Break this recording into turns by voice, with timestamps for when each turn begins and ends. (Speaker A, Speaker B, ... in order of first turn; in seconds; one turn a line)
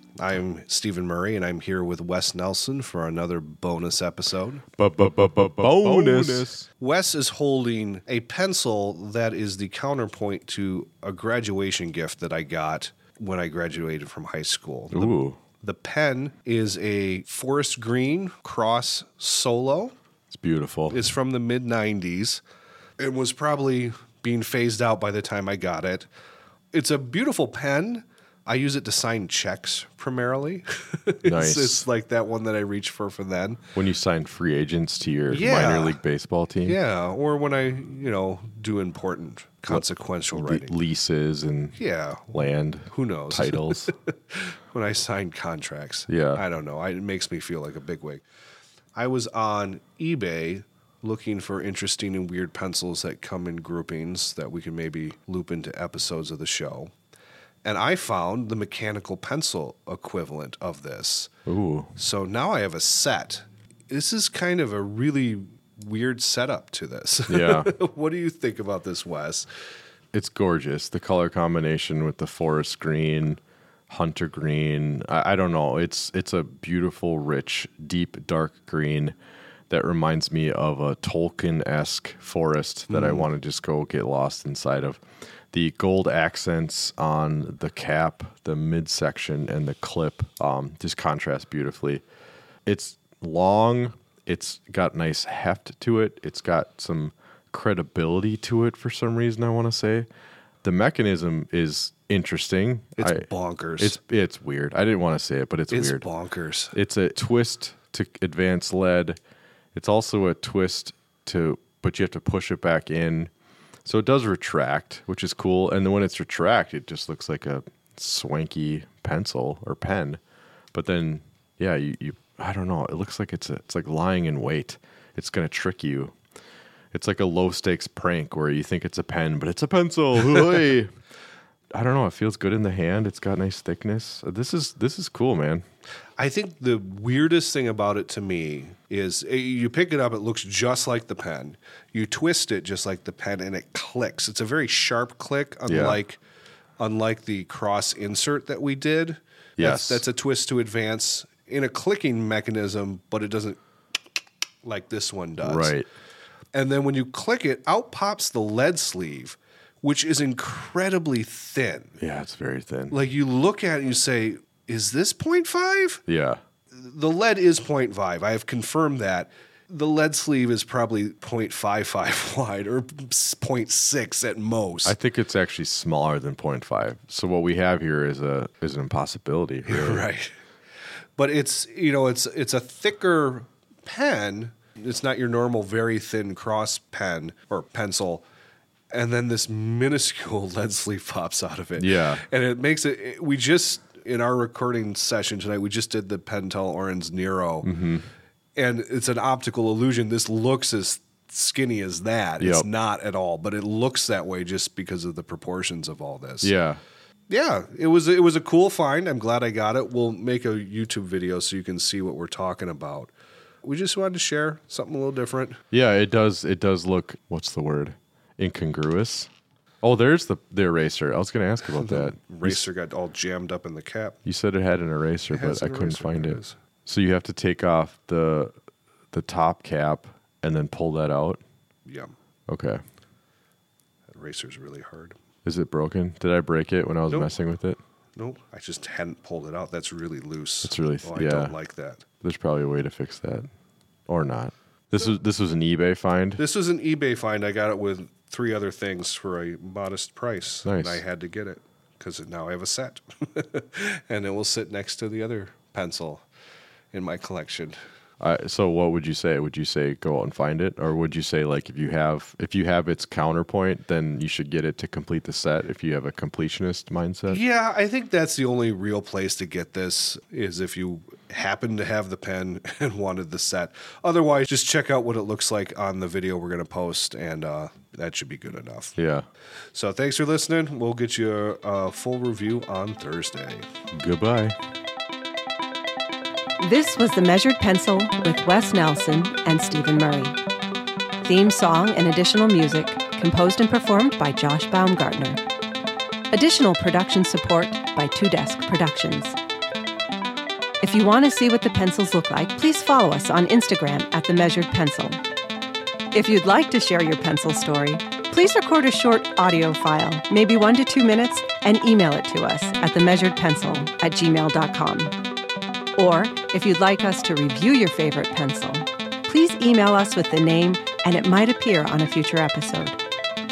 Speaker A: 0.2-4.6
Speaker B: 4.8-6.7
Speaker A: 5.6-19.9
Speaker B: 14.9-15.4
Speaker B: 20.3-21.1
Speaker A: 20.9-22.4
Speaker A: 23.0-26.1
Speaker A: 26.7-33.6
Speaker B: 31.2-31.9
Speaker B: 33.7-36.8
Speaker A: 35.3-36.0
Speaker A: 36.6-40.8
Speaker B: 39.7-41.8
Speaker A: 41.7-48.2
Speaker B: 42.3-43.9
Speaker B: 46.1-46.4
Speaker A: 49.0-56.9
Speaker A: 57.6-61.3
Speaker B: 61.5-61.9
Speaker A: 62.0-69.5
Speaker B: 67.3-67.7
Speaker B: 70.1-79.1
Speaker B: 79.7-92.0
Speaker A: 82.9-83.2
Speaker B: 92.7-100.1
Speaker B: 100.6-103.3
Speaker A: 103.0-104.0
Speaker B: 103.8-106.0
Speaker A: 105.7-106.8
Speaker B: 106.7-109.2
Speaker B: 109.7-113.3
Speaker B: 113.8-120.2
Speaker B: 120.7-126.1
Speaker B: 126.9-130.9
Speaker B: 131.7-135.6
Speaker A: 136.2-146.2
Speaker B: 145.7-146.0
Speaker A: 146.8-153.6
Speaker B: 149.6-150.0
Speaker A: 154.6-155.7
Speaker B: 155.4-155.8
Speaker A: 156.5-161.9
Speaker B: 162.0-163.0
Speaker A: 162.9-166.0
Speaker B: 166.1-166.4
Speaker A: 166.7-174.9
Speaker B: 174.8-180.1
Speaker A: 179.7-180.3
Speaker A: 181.2-188.2
Speaker A: 188.9-197.7
Speaker B: 191.8-192.2
Speaker B: 197.6-198.1
Speaker A: 198.6-206.5
Speaker B: 202.4-202.7
Speaker B: 206.4-206.8
Speaker A: 207.3-213.1
Speaker A: 213.6-215.6
Speaker B: 215.7-219.3
Speaker B: 219.8-222.7
Speaker A: 221.7-224.2
Speaker B: 224.2-228.5
Speaker A: 225.3-226.5
Speaker B: 229.1-231.4
Speaker A: 231.8-232.1
Speaker B: 232.5-232.8
Speaker A: 234.1-235.2
Speaker B: 235.4-237.8
Speaker A: 237.1-237.3
Speaker A: 238.2-242.1
Speaker B: 240.6-241.5
Speaker B: 242.2-243.5
Speaker B: 244.1-246.4
Speaker A: 246.4-256.2
Speaker B: 250.6-251.0
Speaker A: 256.9-257.8
Speaker B: 258.2-267.4
Speaker A: 267.3-278.9
Speaker B: 278.9-279.2
Speaker A: 279.7-283.6
Speaker B: 283.9-284.6
Speaker C: 286.6-290.4
Speaker C: 291.2-295.4
Speaker C: 296.3-299.4
Speaker C: 300.8-305.2
Speaker C: 306.1-315.2
Speaker C: 315.9-323.0